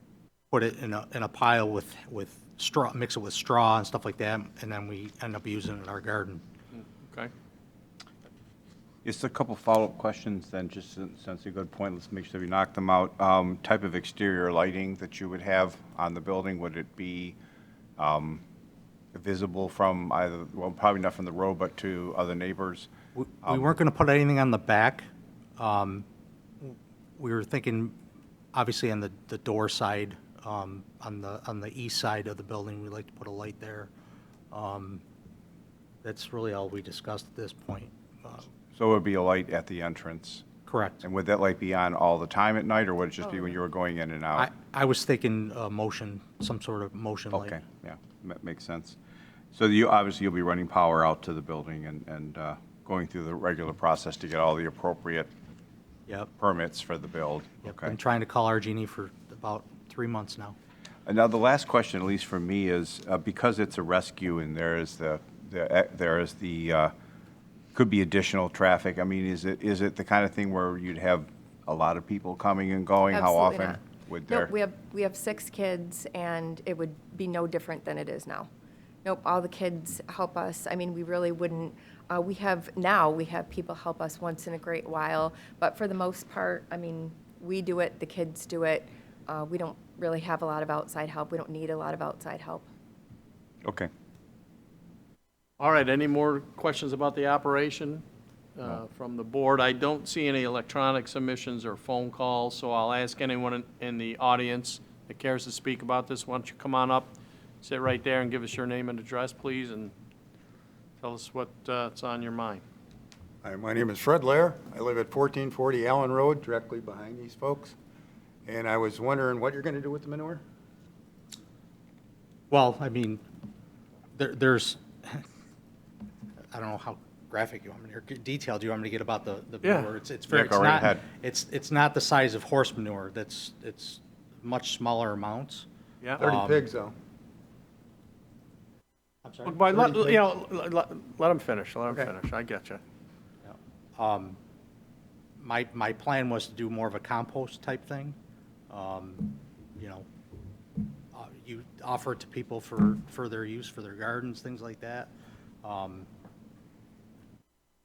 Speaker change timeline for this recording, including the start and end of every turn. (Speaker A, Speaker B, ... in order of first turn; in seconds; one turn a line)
Speaker A: 0.5-6.4
Speaker B: 7.0-7.3
Speaker C: 9.1-17.4
Speaker C: 18.0-18.4
Speaker C: 19.1-22.9
Speaker A: 23.1-26.1
Speaker C: 23.4-23.7
Speaker A: 26.6-28.0
Speaker A: 28.5-33.9
Speaker A: 34.5-35.0
Speaker A: 36.0-38.5
Speaker C: 38.8-40.5
Speaker A: 40.7-41.0
Speaker C: 41.0-44.5
Speaker A: 44.4-47.6
Speaker C: 47.3-49.0
Speaker C: 49.5-55.3
Speaker C: 56.4-57.9
Speaker A: 57.6-60.6
Speaker C: 61.1-66.9
Speaker C: 67.8-74.5
Speaker D: 73.1-78.5
Speaker D: 79.0-92.7
Speaker C: 93.6-93.9
Speaker B: 95.6-98.0
Speaker B: 98.5-109.9
Speaker B: 111.0-112.6
Speaker E: 113.4-117.8
Speaker E: 118.5-120.4
Speaker A: 122.5-123.2
Speaker A: 124.1-125.2
Speaker A: 126.5-135.7
Speaker B: 129.6-129.9
Speaker C: 130.3-131.1
Speaker A: 136.2-136.6
Speaker E: 136.2-137.0
Speaker A: 139.2-140.0
Speaker B: 139.5-142.8
Speaker A: 143.4-144.4
Speaker A: 145.4-148.2
Speaker A: 148.7-150.1
Speaker A: 151.1-155.1
Speaker A: 155.6-156.1